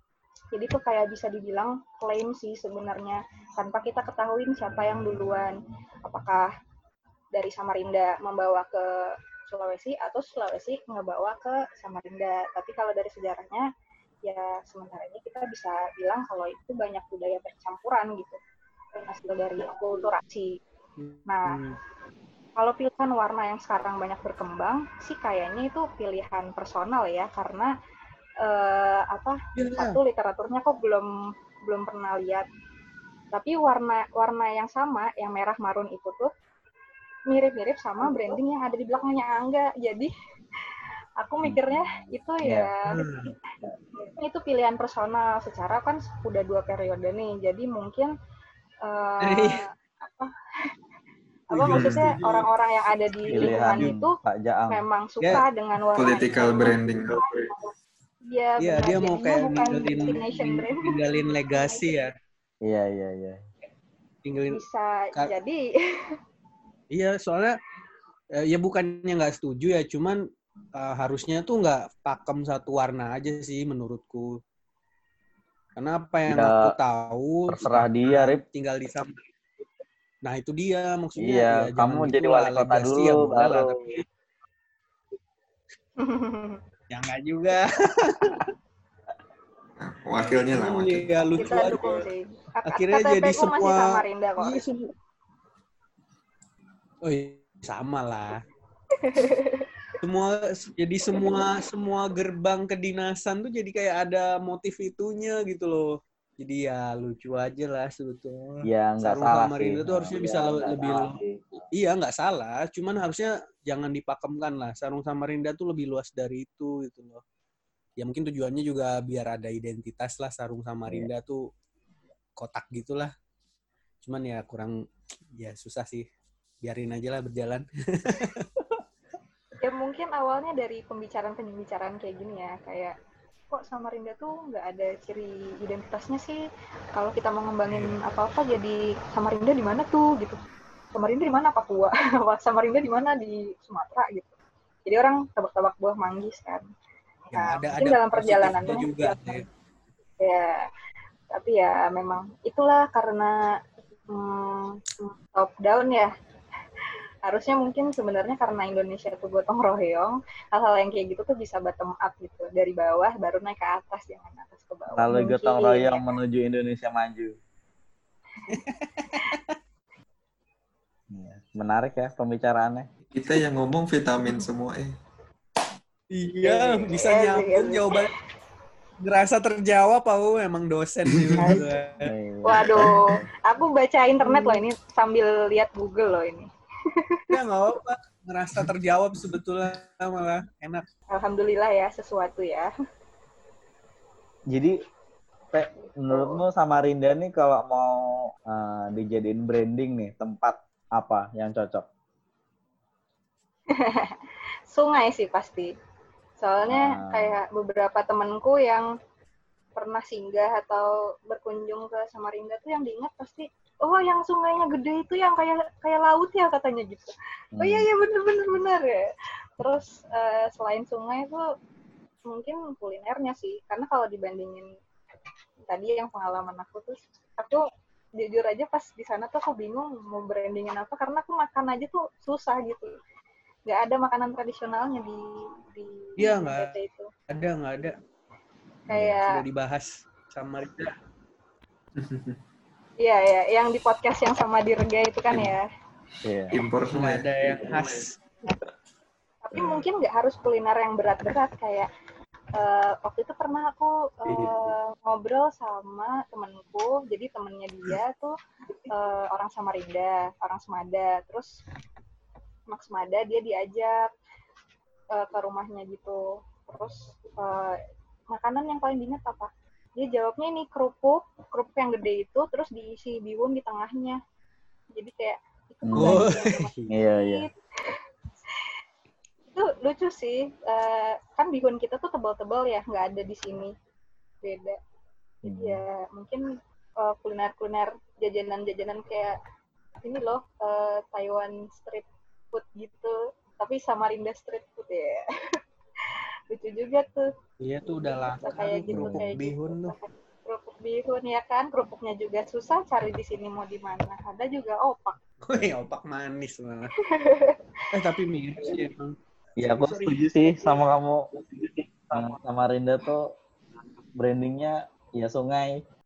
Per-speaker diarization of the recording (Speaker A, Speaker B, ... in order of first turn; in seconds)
Speaker A: 0.5-6.5, 7.3-13.7, 14.2-18.4, 19.0-20.6, 21.3-21.6, 22.6-27.7, 28.4-31.1, 31.6-32.5, 33.3-36.3, 37.3-40.1, 41.2-43.0, 44.0-48.1, 48.8-50.3, 51.5-54.1, 54.7-57.7, 58.3-60.9, 61.5-61.8, 64.5-66.1, 86.0-86.6, 91.4-94.6, 98.9-99.7, 129.6-132.9, 133.5-136.4, 136.9-140.4, 140.9-144.3, 144.9-146.7, 147.3-149.4, 150.2-150.7, 151.3-153.3, 154.1-156.1, 157.2-166.0, 176.4-178.0, 182.4-187.3, 191.1-192.7, 196.1-196.4, 203.7-205.7, 206.4-208.9, 209.8-221.4, 222.3-224.7, 225.7-227.6, 228.2-232.9, 233.7-237.1, 238.9-239.4, 243.0-245.6, 249.4-251.9, 252.5-258.4, 258.9-261.5, 262.7-264.1, 265.1-267.8, 268.3-274.2, 274.9-278.0, 279.5-283.7, 284.4-284.8, 285.4-289.4, 290.0-295.2, 296.1-297.3, 297.9-305.2, 307.1-307.9
Speaker B: 21.0-21.8, 29.6-30.0, 42.9-43.3, 49.2-49.6, 51.5-52.5, 53.3-53.9, 58.6-62.1, 64.2-64.6, 66.9-67.5, 68.4-70.2, 70.8-74.3, 75.8-79.2, 80.2-84.0, 86.9-88.5, 90.2-92.0, 92.7-94.9, 97.0-98.4, 100.0-111.2, 111.7-117.2, 118.0-121.4, 122.4-123.1, 124.0-124.8, 125.3-126.0, 126.6-128.4, 147.3-149.4, 168.5-169.6, 176.1-178.1, 179.0-182.1, 187.3-190.8, 236.2-236.7, 237.3-237.9, 239.3-240.9, 246.8-248.1, 275.9-276.9, 297.6-299.9, 305.4-306.9, 307.9-310.2
Speaker C: 41.4-42.7, 53.3-54.8, 62.6-63.4, 76.3-76.7, 77.5-78.4, 81.2-83.8, 108.7-111.6, 164.9-167.3, 171.1-172.9, 182.0-183.2, 195.5-201.8, 206.6-207.4, 217.5-217.9, 238.9-239.2, 246.2-246.5, 275.8-276.3, 276.9-277.4, 285.4-285.8, 298.9-299.4, 309.6-311.2, 311.8-313.2, 314.1-315.8
Speaker D: 51.7-52.1, 56.0-57.5, 89.8-91.3, 173.1-174.9, 181.1-181.6, 242.0-242.4, 246.5-248.1